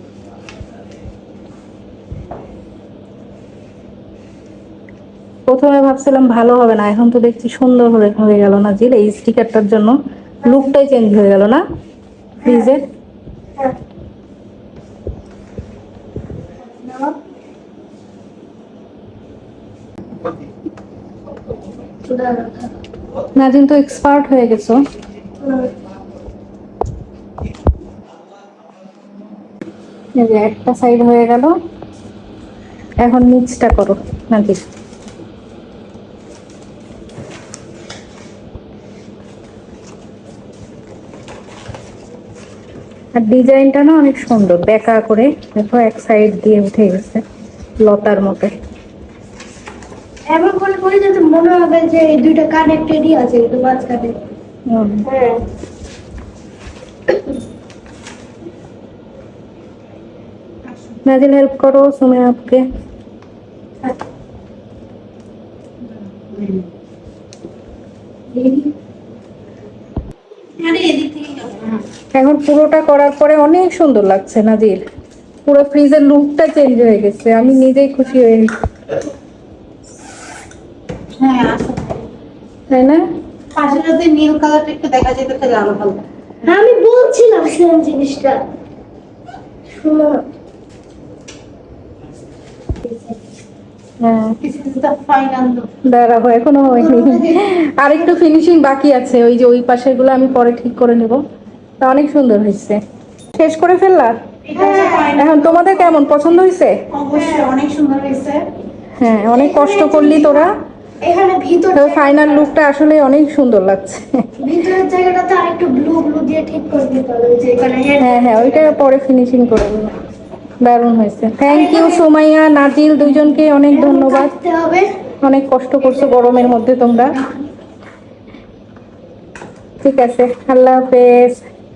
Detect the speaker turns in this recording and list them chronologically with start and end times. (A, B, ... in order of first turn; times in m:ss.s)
0:05.5-0:11.6 A
0:12.4-0:12.8 A
0:12.4-0:12.7 B
0:16.6-0:17.2 B
0:22.0-0:22.7 B
0:23.4-0:24.8 A
0:25.4-0:25.7 B
0:30.2-0:31.5 A
0:33.0-0:34.6 A
0:43.2-0:47.2 A
0:47.8-0:48.6 A
0:50.3-0:54.2 B
0:54.7-0:55.1 A
0:55.0-0:55.4 B
1:01.0-1:02.6 A
1:06.2-1:06.7 C
1:08.4-1:08.7 B
1:10.6-1:11.8 C
1:12.1-1:14.8 A
1:15.5-1:18.5 A
1:21.2-1:22.0 C
1:22.7-1:23.0 A
1:23.6-1:26.0 C
1:26.4-1:28.4 B
1:29.7-1:30.3 B
1:32.8-1:33.2 B
1:34.0-1:34.4 A
1:34.4-1:35.7 C
1:35.9-1:41.2 A
1:36.7-1:37.4 B
1:41.8-1:42.8 A
1:43.3-1:44.1 A
1:44.5-1:46.0 C
1:44.5-1:45.2 B
1:45.1-1:46.8 A
1:46.9-1:48.5 C
1:47.1-1:47.5 B
1:49.0-1:50.5 A
1:49.2-1:50.5 B
1:51.0-1:52.5 B
1:51.7-1:54.2 A
1:54.4-1:58.7 B
1:58.0-2:00.0 A
2:00.6-2:04.3 A
2:01.5-2:02.0 B
2:03.6-2:04.9 B
2:05.2-2:07.2 A
2:05.9-2:06.3 B
2:09.8-2:11.4 A